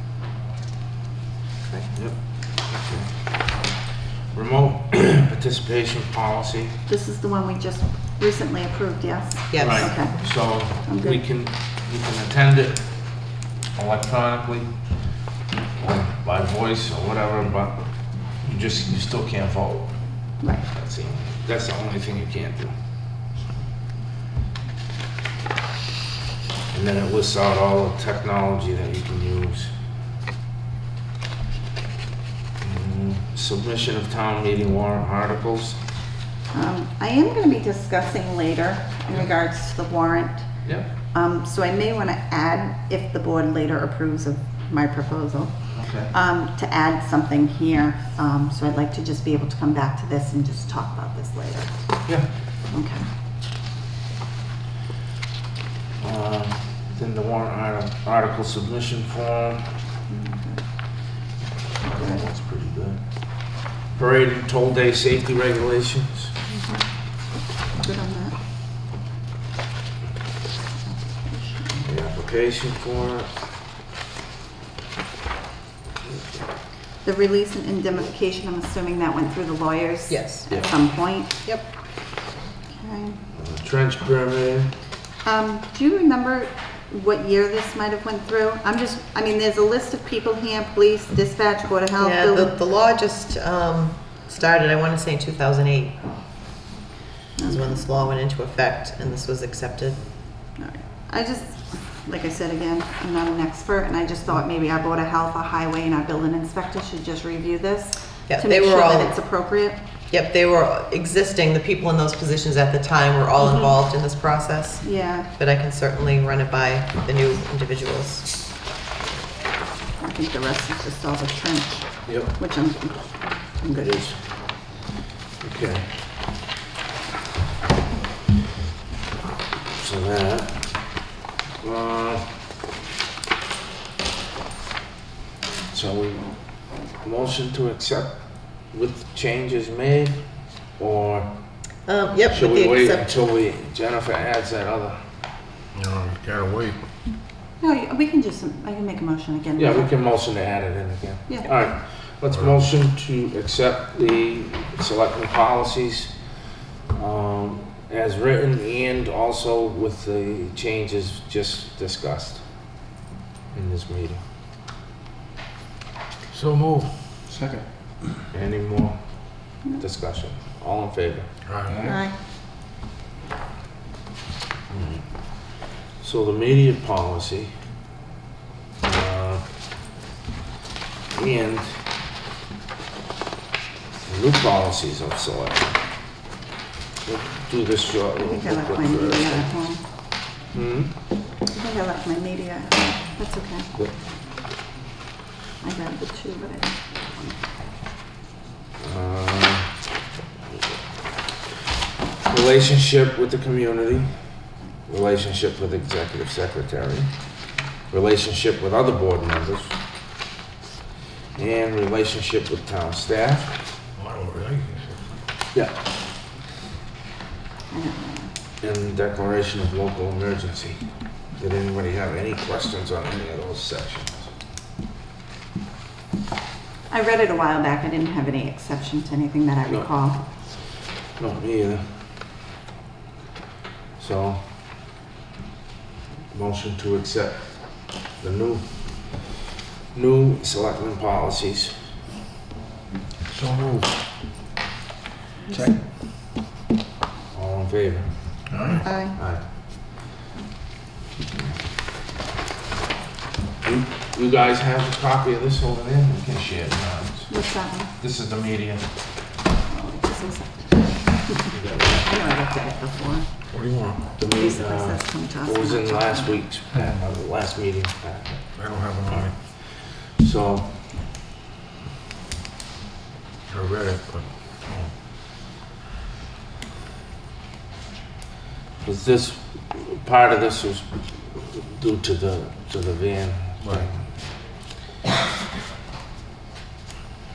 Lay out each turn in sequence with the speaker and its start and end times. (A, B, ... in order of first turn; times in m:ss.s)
0:01.9-0:03.7 A
0:04.3-0:06.8 A
0:06.9-0:11.2 B
0:09.5-0:10.0 C
0:09.6-0:14.7 A
0:15.8-0:22.7 A
0:20.4-0:20.7 B
0:26.7-0:29.7 A
0:32.6-0:35.8 A
0:36.5-0:40.5 B
0:41.1-0:45.6 B
0:45.7-0:46.1 A
0:46.1-0:51.8 B
0:52.7-0:53.1 B
0:56.0-0:59.7 A
1:00.1-1:00.6 B
1:01.8-1:06.3 A
1:01.9-1:02.2 B
1:06.5-1:06.8 B
1:07.7-1:08.4 B
1:10.9-1:11.9 B
1:11.8-1:13.3 A
1:16.0-1:16.4 A
1:17.0-1:21.3 B
1:20.1-1:21.6 C
1:22.7-1:23.2 B
1:23.3-1:24.7 A
1:25.2-1:32.5 B
1:32.0-1:36.0 C
1:37.4-1:37.9 B
1:37.4-1:40.0 C
1:40.6-1:49.8 B
1:48.3-1:49.2 C
1:50.1-1:58.3 C
1:54.8-1:55.3 B
2:00.0-2:04.1 B
2:02.0-2:02.4 A
2:03.7-2:04.2 A
2:05.4-2:06.1 A
2:09.7-2:11.0 A
2:11.6-2:12.3 A
2:15.7-2:21.6 A
2:21.8-2:23.1 C
2:22.3-2:25.0 A
2:25.7-2:26.8 D
2:27.6-2:29.9 B
2:29.6-2:36.1 A
2:32.3-2:32.6 D
2:36.9-2:42.7 A
2:43.5-2:44.2 A
2:46.3-2:47.4 D
2:46.4-2:46.7 A
2:48.3-2:51.9 A
2:51.4-2:51.8 D
2:51.8-2:52.1 B
2:54.7-2:57.5 A
2:58.8-2:59.4 A
3:01.1-3:01.8 A
3:04.0-3:05.8 A
3:07.0-3:09.7 A
3:08.2-3:09.8 B
3:10.5-3:10.9 A
3:11.4-3:13.7 B
3:15.6-3:17.4 B
3:18.8-3:19.8 A
3:22.2-3:27.1 A
3:27.9-3:29.8 A
3:31.3-3:33.6 A
3:34.0-3:35.1 D
3:37.7-3:38.3 B
3:38.6-3:44.3 A
3:46.9-3:50.2 B
3:49.7-3:49.9 A
3:51.2-3:52.0 A
3:54.0-3:54.5 A
3:56.3-3:59.3 A
3:59.9-4:01.8 A
4:03.3-4:03.9 D
4:05.5-4:05.8 D
4:07.3-4:09.5 A
4:08.5-4:08.8 D
4:08.8-4:09.2 B
4:13.6-4:19.0 A
4:17.3-4:17.9 B
4:19.7-4:21.4 B
4:21.5-4:22.1 A
4:22.0-4:23.3 B
4:23.5-4:24.1 D
4:24.2-4:31.0 A
4:24.3-4:26.4 B
4:28.5-4:29.4 D
4:33.5-4:34.9 D
4:38.8-4:44.0 A
4:43.6-4:43.9 D